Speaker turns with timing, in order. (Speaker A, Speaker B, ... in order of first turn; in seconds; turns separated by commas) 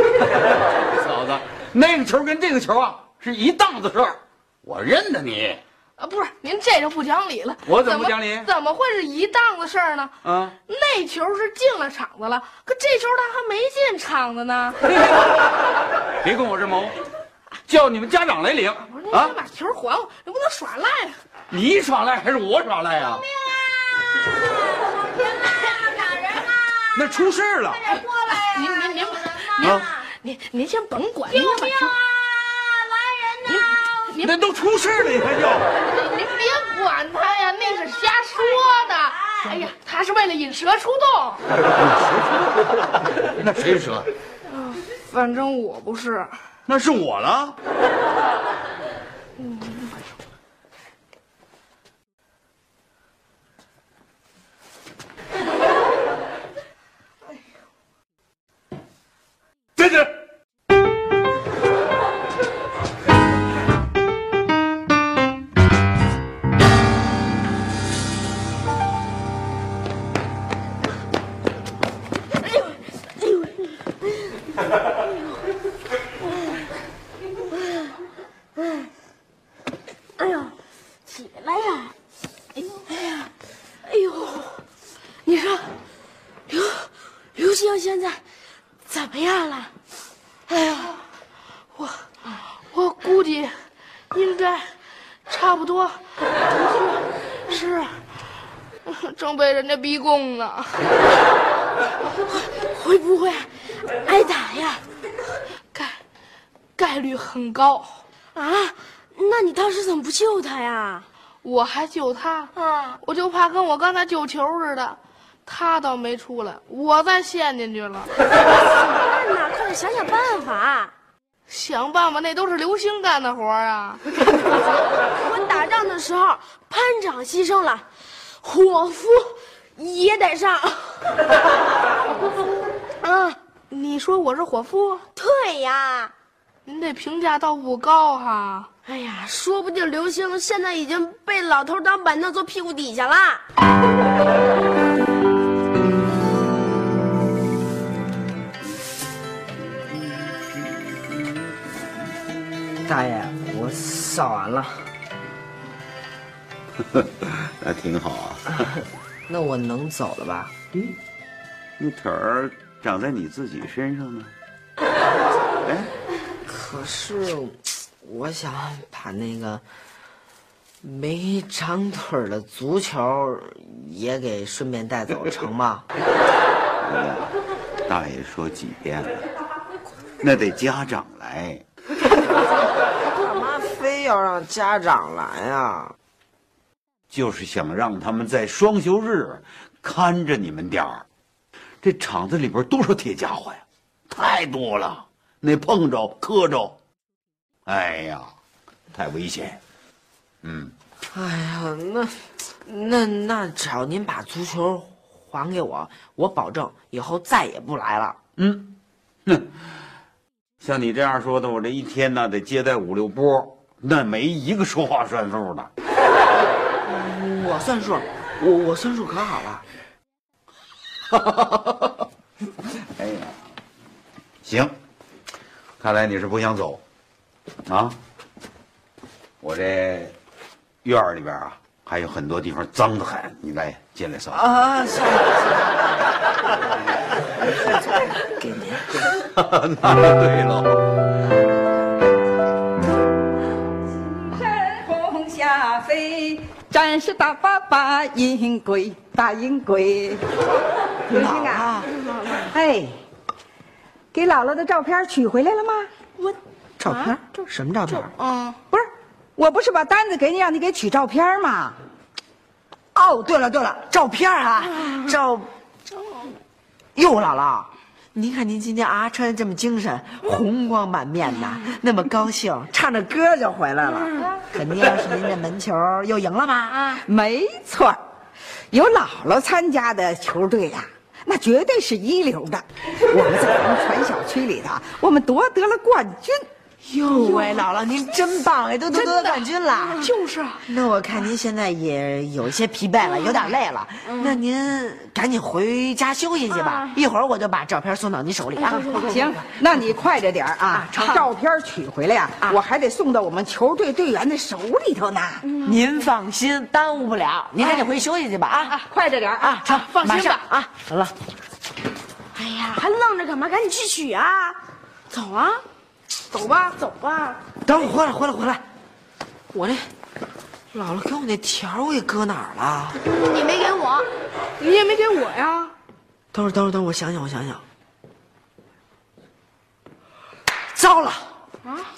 Speaker A: 0.7-5.6, Speaker B: 6.0-10.2, Speaker A: 7.7-8.5, Speaker A: 10.2-10.6, Speaker B: 10.7-14.8, Speaker A: 16.2-16.9, Speaker A: 17.7-19.4, Speaker B: 18.8-21.2, Speaker A: 21.5-23.2, Speaker C: 23.0-30.1, Speaker A: 26.9-28.0, Speaker B: 28.3-32.0, Speaker A: 29.6-29.9, Speaker C: 31.3-34.1, Speaker B: 33.5-34.4, Speaker A: 34.2-35.7, Speaker B: 35.8-41.4, Speaker C: 38.4-39.6, Speaker A: 41.7-44.1, Speaker B: 44.5-46.3, Speaker A: 46.7-47.6, Speaker B: 49.4-50.0, Speaker A: 59.8-60.1, Speaker C: 72.4-74.3, Speaker C: 77.5-77.9, Speaker C: 78.6-78.9, Speaker C: 80.2-80.5, Speaker C: 81.1-81.9, Speaker C: 82.8-83.3, Speaker C: 83.8-84.6, Speaker C: 85.2-85.7, Speaker C: 86.5-88.2, Speaker C: 88.9-89.7, Speaker C: 90.5-90.9, Speaker B: 91.8-93.5, Speaker B: 94.1-94.7, Speaker B: 95.3-96.0, Speaker B: 97.5-98.0, Speaker B: 98.9-100.8, Speaker C: 102.3-103.5, Speaker C: 104.0-104.8, Speaker B: 105.7-106.0, Speaker B: 106.8-108.0, Speaker C: 108.3-111.1, Speaker B: 111.4-112.5, Speaker C: 112.6-113.0, Speaker B: 113.0-118.1, Speaker C: 118.5-120.9, Speaker B: 121.5-124.0, Speaker C: 125.2-127.9, Speaker C: 128.4-131.0, Speaker C: 133.0-133.4, Speaker B: 133.7-135.1, Speaker C: 135.2-136.1, Speaker B: 136.7-138.7, Speaker C: 138.9-143.4, Speaker D: 152.9-154.9, Speaker A: 156.8-158.7, Speaker D: 159.3-160.9, Speaker A: 161.8-164.3, Speaker A: 165.6-165.9, Speaker D: 166.5-169.6, Speaker D: 170.8-175.8, Speaker A: 176.8-177.3, Speaker A: 177.9-179.2, Speaker A: 180.2-181.6, Speaker D: 183.1-185.9, Speaker A: 187.1-191.1, Speaker A: 191.8-196.8, Speaker A: 197.7-198.3, Speaker A: 198.9-199.6, Speaker A: 200.4-200.7, Speaker D: 201.1-208.2, Speaker A: 208.4-208.8, Speaker A: 210.6-215.7, Speaker D: 216.8-219.7, Speaker A: 221.1-222.0, Speaker A: 222.9-223.4, Speaker A: 224.4-224.8, Speaker A: 225.8-226.8, Speaker A: 227.7-228.0, Speaker A: 229.4-230.2, Speaker A: 230.8-234.5, Speaker D: 234.3-235.9, Speaker D: 237.6-239.1, Speaker A: 239.1-240.8, Speaker E: 244.0-250.3, Speaker E: 251.1-251.7, Speaker D: 251.1-251.9, Speaker C: 252.0-252.5, Speaker E: 252.5-253.0, Speaker E: 254.1-255.9, Speaker C: 256.2-257.1, Speaker D: 256.8-258.1, Speaker C: 258.1-258.6, Speaker E: 258.7-261.8, Speaker D: 262.9-265.5, Speaker D: 267.0-276.8, Speaker E: 277.0-278.0, Speaker E: 278.7-286.5, Speaker D: 286.9-290.1, Speaker B: 288.9-289.5, Speaker B: 290.0-290.6, Speaker D: 290.6-299.3, Speaker C: 294.1-294.4, Speaker C: 296.5-296.9, Speaker C: 298.6-299.1, Speaker E: 298.9-305.5, Speaker D: 300.7-301.2, Speaker C: 305.5-305.8, Speaker D: 305.6-308.8, Speaker E: 308.9-309.6, Speaker D: 309.4-311.1, Speaker B: 309.6-310.4, Speaker C: 312.3-314.6, Speaker C: 315.1-315.6, Speaker B: 316.3-316.8, Speaker C: 316.8-317.4, Speaker D: 317.6-318.6, Speaker D: 319.5-319.9, Speaker D: 320.7-323.0, Speaker C: 323.0-324.1, Speaker B: 324.6-325.8, Speaker D: 326.3-327.6, Speaker D: 330.7-331.3